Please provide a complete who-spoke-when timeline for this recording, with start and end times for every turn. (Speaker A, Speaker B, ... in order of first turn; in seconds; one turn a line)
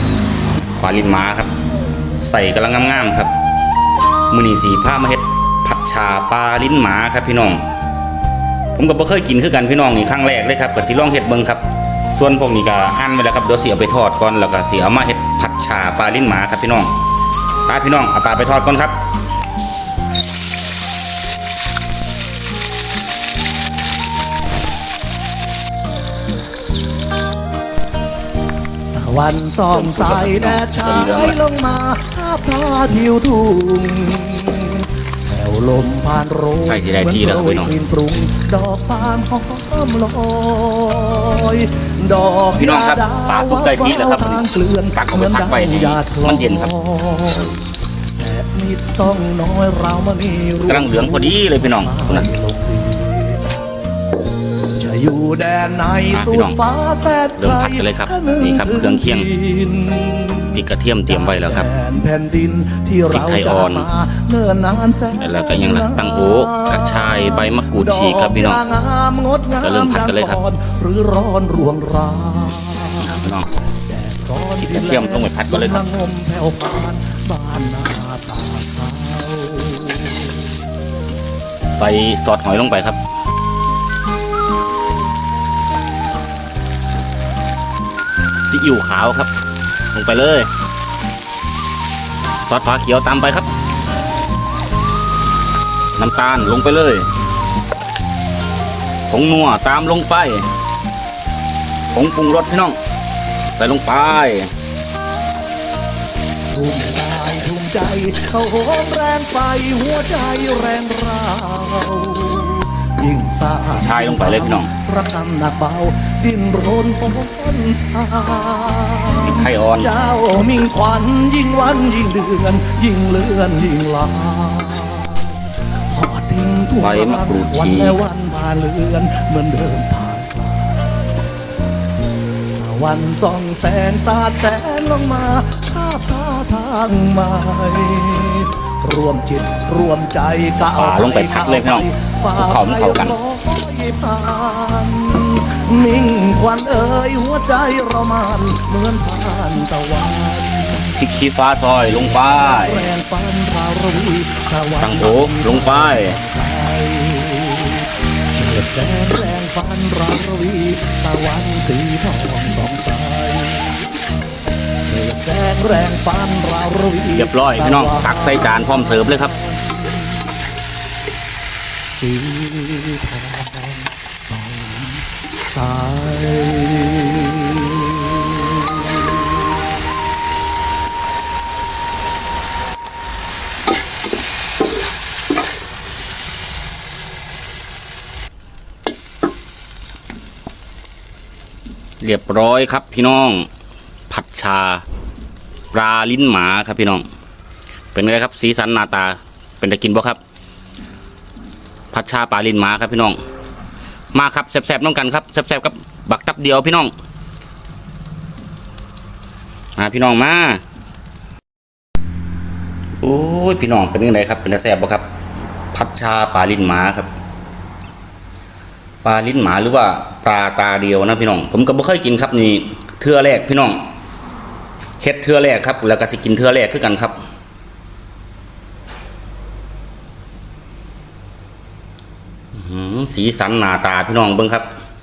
Speaker A: 0.8-1.5
Speaker A: 2.2-3.3
Speaker A: 4.3-7.6
Speaker A: 8.8-11.6
Speaker A: 12.1-16.9
Speaker A: 17.7-18.9
Speaker B: 28.9-47.6
Speaker A: 29.7-31.4
Speaker A: 36.7-37.7
Speaker A: 42.5-46.7
Speaker B: 48.2-53.6
Speaker A: 50.7-52.3
Speaker B: 54.8-73.2
Speaker A: 56.1-56.6
Speaker A: 57.4-59.3
Speaker A: 60.5-61.7
Speaker A: 63.1-63.9
Speaker A: 65.2-68.6
Speaker A: 69.6-70.4
Speaker A: 73.0-73.5
Speaker B: 73.9-80.4
Speaker A: 74.6-75.8
Speaker A: 81.8-83.0
Speaker A: 88.5-89.3
Speaker A: 89.9-90.5
Speaker A: 92.5-93.5
Speaker A: 96.0-97.1
Speaker A: 99.1-100.5
Speaker A: 101.9-102.8
Speaker A: 103.6-104.5
Speaker B: 106.5-125.3
Speaker A: 113.7-114.7
Speaker A: 119.2-119.9
Speaker B: 125.9-131.1
Speaker A: 126.8-128.0
Speaker B: 132.6-151.0
Speaker A: 140.8-143.2
Speaker A: 151.0-152.8
Speaker B: 152.0-163.8
Speaker A: 154.8-156.2
Speaker B: 164.8-170.3
Speaker A: 167.1-169.3
Speaker B: 172.0-178.8
Speaker A: 192.0-193.5
Speaker A: 194.1-194.8
Speaker A: 195.7-197.0
Speaker A: 197.9-200.2
Speaker A: 201.9-203.2
Speaker A: 204.1-206.9
Speaker A: 209.8-210.6
Speaker A: 213.0-215.0
Speaker A: 215.7-217.1
Speaker A: 219.0-223.8
Speaker A: 225.0-227.2
Speaker A: 232.6-234.7